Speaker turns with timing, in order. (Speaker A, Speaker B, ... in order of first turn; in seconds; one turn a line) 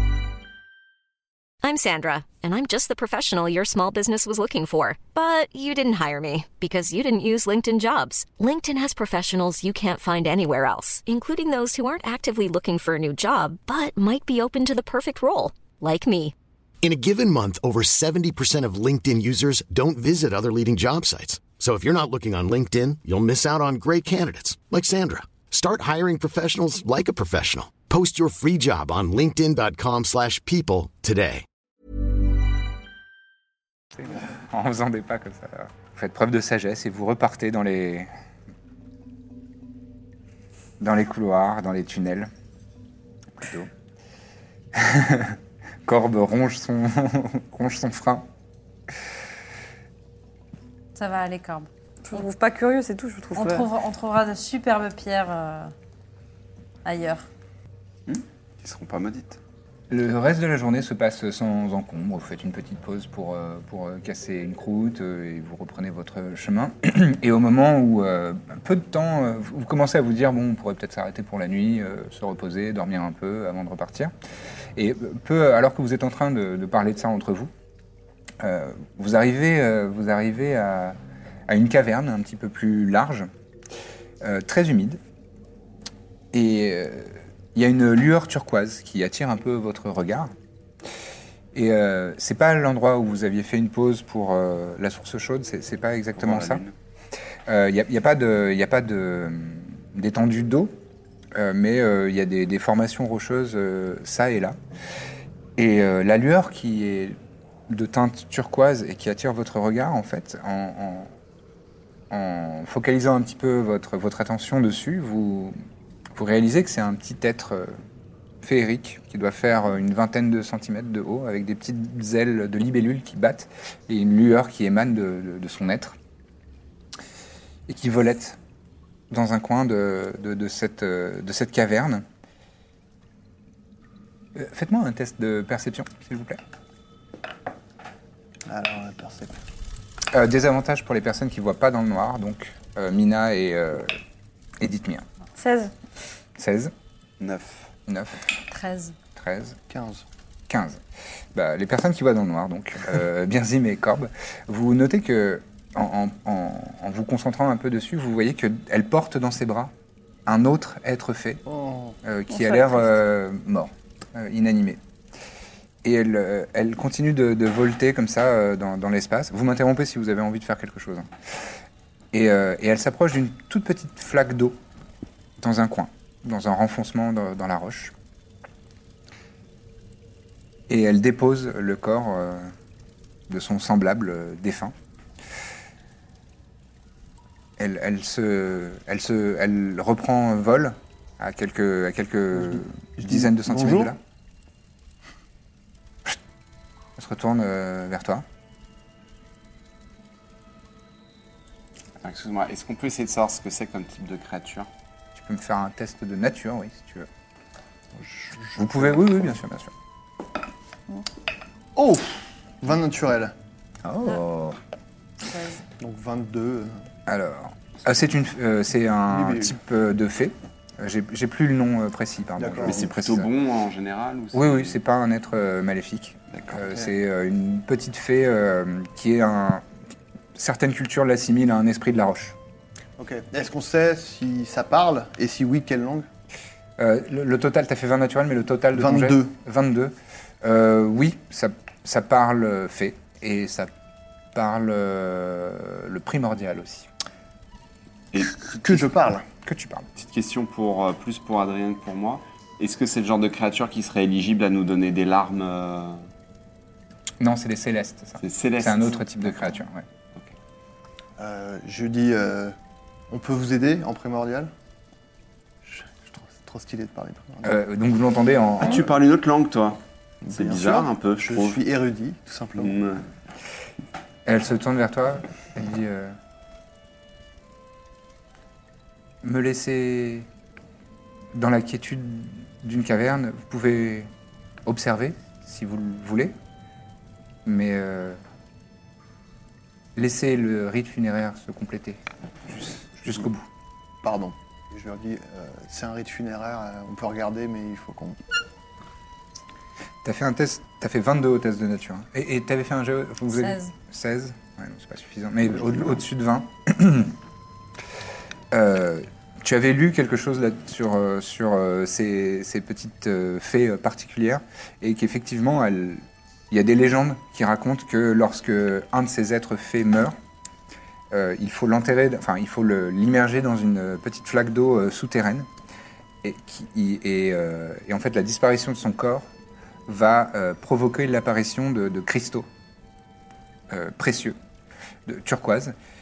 Speaker A: 1.6-16.3
Speaker B: 16.8-31.4
Speaker C: 34.0-38.1
Speaker C: 40.8-42.3
Speaker C: 43.4-43.7
Speaker C: 44.7-48.3
Speaker D: 51.0-51.7
Speaker E: 52.1-53.7
Speaker D: 53.4-55.7
Speaker D: 56.9-57.3
Speaker F: 58.1-59.4
Speaker C: 59.9-74.1
Speaker C: 74.8-77.5
Speaker C: 78.4-81.0
Speaker C: 81.5-83.3
Speaker C: 84.2-85.0
Speaker C: 86.3-90.3
Speaker C: 91.5-96.6
Speaker F: 96.2-96.7
Speaker C: 97.5-100.8
Speaker C: 101.3-104.6
Speaker C: 105.6-107.2
Speaker C: 107.7-111.1
Speaker C: 112.1-115.5
Speaker C: 116.2-117.8
Speaker C: 118.4-126.0
Speaker C: 127.7-128.4
Speaker C: 129.1-132.1
Speaker C: 134.3-136.4
Speaker G: 138.5-139.4
Speaker C: 140.1-143.9
Speaker C: 144.6-145.1
Speaker E: 145.4-145.7
Speaker C: 146.4-146.7
Speaker F: 147.2-147.7
Speaker C: 147.9-148.3
Speaker D: 148.5-148.9
Speaker C: 149.2-149.6
Speaker G: 149.7-150.1
Speaker C: 150.5-150.8
Speaker C: 151.3-159.7
Speaker C: 160.3-161.4
Speaker G: 161.5-162.0
Speaker C: 162.0-164.8
Speaker E: 162.3-162.7
Speaker C: 165.8-171.1
Speaker C: 172.1-174.6
Speaker C: 175.4-177.9
Speaker C: 180.7-182.5
Speaker C: 183.3-184.7
Speaker C: 187.6-194.0
Speaker G: 192.3-193.9
Speaker C: 197.0-198.2
Speaker F: 202.0-204.7
Speaker C: 205.2-207.1
Speaker G: 207.9-209.3
Speaker C: 208.6-209.7
Speaker G: 211.8-213.3
Speaker C: 213.8-214.6
Speaker D: 215.3-215.6
Speaker G: 215.8-216.8
Speaker C: 217.1-223.3
Speaker G: 219.1-219.6
Speaker G: 222.4-222.8
Speaker F: 222.6-224.8
Speaker C: 224.3-229.6
Speaker G: 226.5-226.9
Speaker C: 230.4-232.4
Speaker G: 233.0-236.1
Speaker C: 236.8-243.7
Speaker G: 238.7-239.3
Speaker C: 244.3-246.9
Speaker F: 248.1-248.4
Speaker G: 248.4-249.2
Speaker C: 249.4-249.9
Speaker F: 250.0-256.0
Speaker C: 257.2-259.9
Speaker F: 258.2-259.4
Speaker G: 261.2-262.6
Speaker G: 263.1-264.5
Speaker G: 265.6-267.5
Speaker C: 267.4-268.9
Speaker F: 268.6-269.8
Speaker G: 270.2-272.8
Speaker F: 270.3-271.6
Speaker F: 272.6-273.0
Speaker C: 274.3-276.1
Speaker C: 279.2-280.3
Speaker C: 281.3-284.1
Speaker C: 284.6-286.4
Speaker C: 287.4-288.2
Speaker C: 290.0-293.5
Speaker G: 294.0-298.2
Speaker C: 300.0-307.2
Speaker D: 303.4-303.7
Speaker C: 308.5-320.2
Speaker C: 321.1-325.5
Speaker C: 326.2-329.3
Speaker C: 329.9-332.5
Speaker C: 333.7-334.4
Speaker C: 335.1-335.8